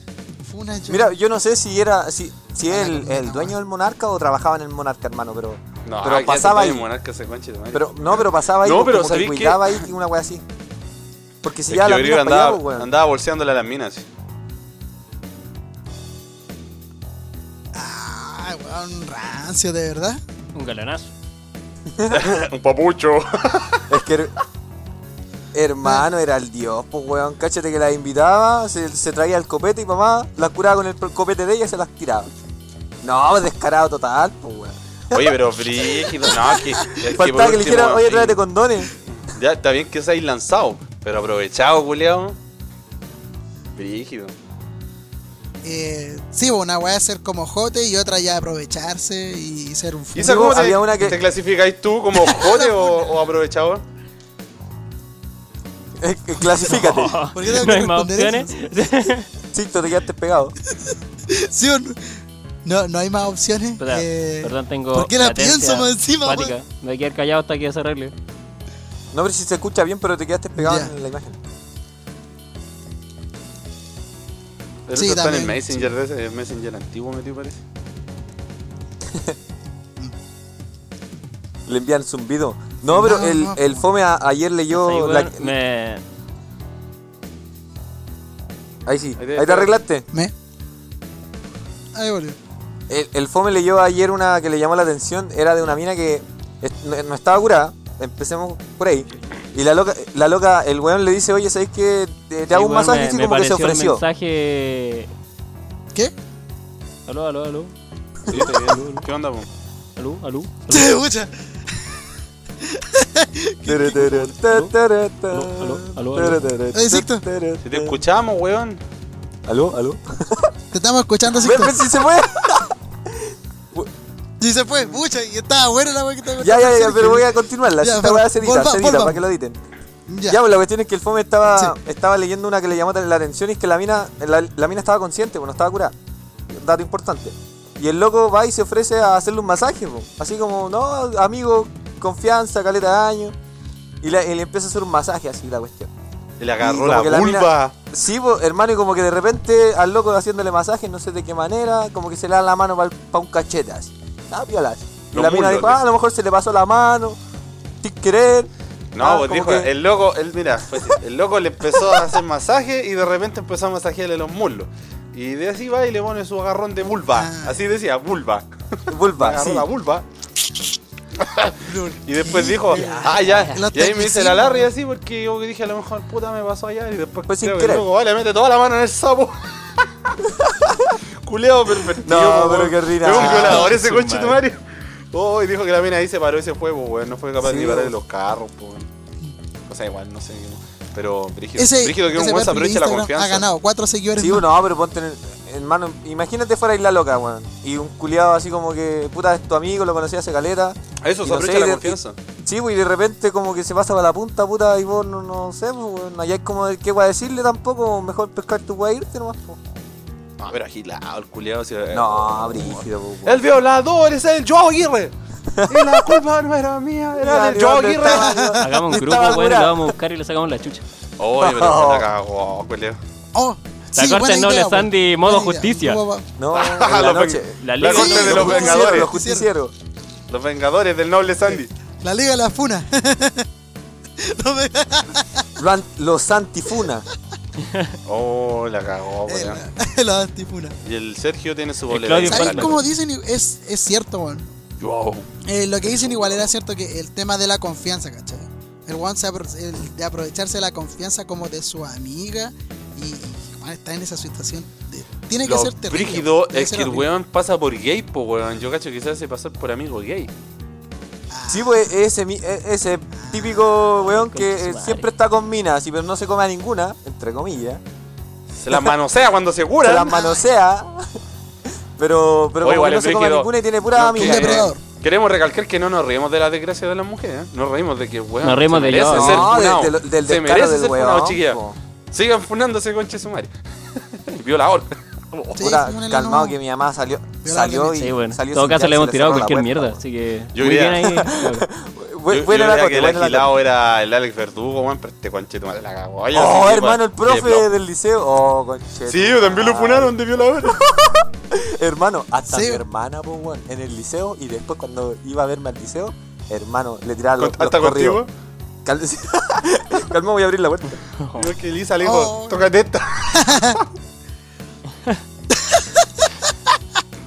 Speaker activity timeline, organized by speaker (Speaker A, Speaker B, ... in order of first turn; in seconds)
Speaker A: 0.4-1.1, 2.7-3.6, 17.7-20.2, 45.6-50.6, 52.2-53.1, 57.3-58.6, 61.3-66.5, 70.6-70.9, 74.9-75.9, 82.9-83.8, 91.9-92.4, 110.7-112.0, 112.6-114.3, 116.7-117.2, 120.7-121.8, 124.4-129.2, 130.1-130.4, 167.1-167.6, 171.6-174.7, 183.2-183.7, 191.6-194.5, 218.1-218.8, 223.3-226.3, 227.9-229.5, 232.0-233.5, 234.2-235.5, 239.3-240.8, 242.2-244.5, 245.4-257.1, 261.3-261.9, 263.1-263.7, 270.1-270.4, 274.1-274.8, 285.6-286.6, 287.4-288.1, 302.5-302.8, 312.0-312.7, 313.3-313.8, 315.5-316.5
Speaker B: 0.9-6.9, 7.7-10.4, 11.4-12.9, 21.9-22.2, 23.9-24.3, 25.5-32.3, 33.0-38.9, 50.2-51.2, 56.0-57.2, 59.5-60.5, 69.1-71.4, 79.1-79.4, 81.7-85.5, 88.9-90.1, 92.9-104.0, 113.7-118.0, 119.5-120.5, 121.3-123.9, 126.4-129.6, 130.3-135.9, 136.5-143.3, 144.0-145.9, 146.6-157.2, 157.8-159.7, 168.9-169.7, 177.3-177.9, 180.2-181.0, 182.0-183.7, 187.4-187.9, 194.2-209.6, 211.9-213.4, 215.5-216.2, 217.2-219.9, 221.4-222.1, 226.4-229.7, 235.6-237.1, 261.5-267.8, 269.8-274.7, 279.1-281.8, 285.6-290.0, 291.0-293.5, 296.3-308.2, 308.9-311.0
Speaker C: 5.8-9.8, 11.7-14.1, 22.1-24.0, 35.1-38.4, 39.2-42.4, 43.8-44.3, 50.1-53.8, 74.9-77.6, 89.2-89.7, 108.3-109.5, 117.6-118.8, 146.4-147.7, 155.1-155.8, 158.9-170.1, 171.2-180.2, 181.2-188.9, 189.7-193.4, 201.0-202.2, 210.4-215.1, 215.7-218.6, 221.2-223.0, 226.5-229.1, 230.3-231.7, 238.1-239.6, 240.8-242.8, 244.8-245.3, 245.9-246.5, 255.4-260.3, 268.5-270.2, 272.6-281.6, 282.1-285.6, 290.6-291.2, 292.3-297.7, 299.1-300.8, 307.4-308.3, 311.4-313.8
Speaker D: 20.5-21.1, 56.5-59.3, 63.8-68.1, 84.7-86.0, 102.5-105.1, 107.1-107.7, 108.3-109.0, 110.0-111.0, 115.3-116.5, 172.7-173.7, 183.1-184.4, 218.5-220.8, 223.9-226.0, 227.6-228.8, 241.9-242.8, 263.9-265.1, 278.4-279.5, 288.0-291.7, 311.2-311.5